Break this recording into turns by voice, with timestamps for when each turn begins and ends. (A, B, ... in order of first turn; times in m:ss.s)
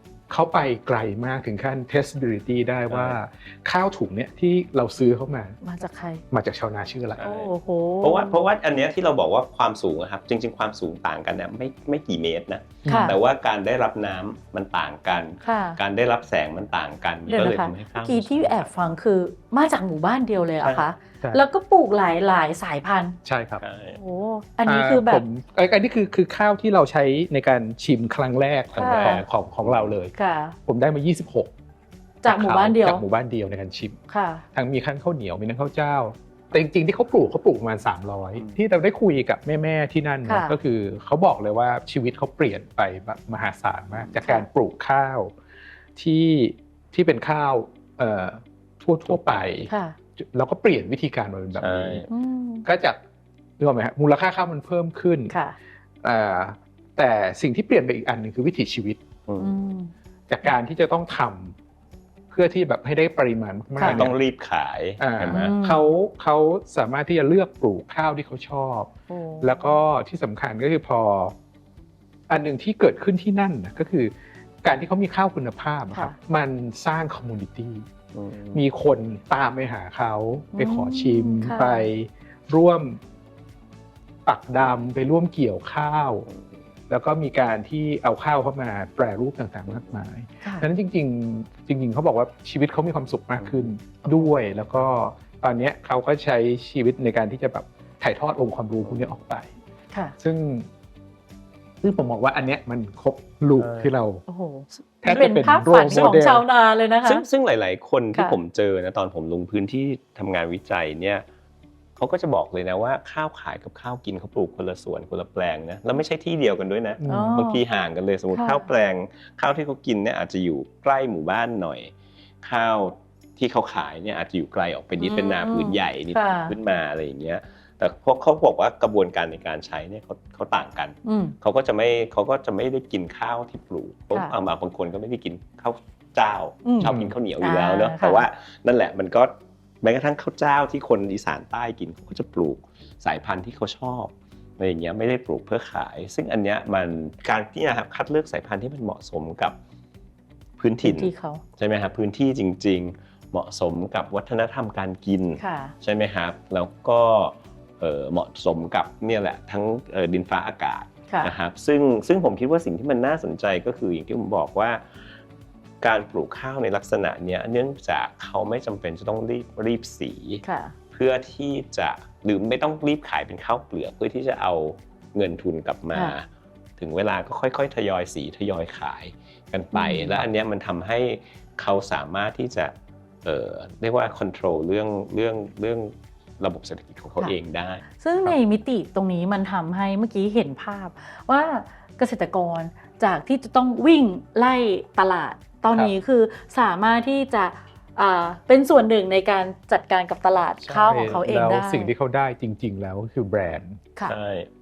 0:00.3-0:05.6 A
0:02.9-0:03.2 B
0:05.6-0:06.2 C
0:06.3-0:07.2 A
0:07.2-0:07.5 B
0:07.2-0:08.5 C
0:08.0-0:18.9 B
0:12.8-0:13.2 A
0:12.8-0:13.2 C
0:15.4-0:15.8 C
0:17.3-0:23.2 C
0:20.6-0:20.9 B
0:21.2-0:21.4 A
0:23.2-0:23.6 A
0:23.6-0:24.0 B
0:23.9-0:25.2 C
0:24.6-0:30.1 A
0:28.7-0:30.0 B
0:28.8-0:29.2 C
0:30.1-0:30.5 C
0:30.6-0:31.5 A
0:32.2-0:33.0 C
0:32.2-0:34.0 A
0:34.1-0:34.4 C
0:34.5-0:45.3 A
0:40.2-0:40.5 C
0:44.1-0:44.4 C
0:46.0-0:52.1 A
0:49.0-0:49.6 B
0:49.7-0:50.0 C
0:51.6-0:52.1 B
0:52.1-0:52.6 C
0:52.6-0:53.0 A
0:53.6-0:55.3 A
0:55.3-0:55.6 C
0:56.0-0:59.0 A
0:59.3-0:59.5 B
0:59.4-0:59.9 C
1:00.3-1:01.6 A
1:02.3-1:04.1 A
1:03.8-1:04.1 C
1:03.8-1:05.5 B
1:05.0-1:08.9 A
1:05.2-1:05.9 C
1:09.1-1:09.8 C
1:09.4-1:11.3 A
1:12.3-1:14.1 A
1:14.6-1:17.8 A
1:18.1-1:18.6 B
1:18.5-1:23.0 A
1:20.5-1:21.9 C
1:24.2-1:26.3 A
1:26.3-1:26.5 B
1:26.9-1:39.5 A
1:30.4-1:30.7 C
1:33.4-1:33.7 B
1:40.2-1:40.7 A
1:41.8-1:44.2 A
1:43.6-1:43.9 B
1:44.3-1:47.2 C
1:45.0-1:46.4 A
1:45.9-1:46.2 B
1:47.0-1:51.2 B
1:52.0-2:29.6 B
1:57.0-1:57.4 A
1:57.1-1:57.6 C
1:58.3-1:58.6 C
2:05.0-2:06.6 C
2:11.0-2:11.4 C
2:16.6-2:18.2 C
2:16.8-2:17.2 A
2:30.6-2:44.8 B
2:30.8-2:31.4 C
2:35.4-2:35.7 C
2:45.8-3:02.7 B
2:50.4-2:50.7 C
2:59.7-3:00.2 C
3:03.2-3:08.4 B
3:08.0-3:21.9 C
3:20.6-3:23.8 A
3:24.1-3:24.5 B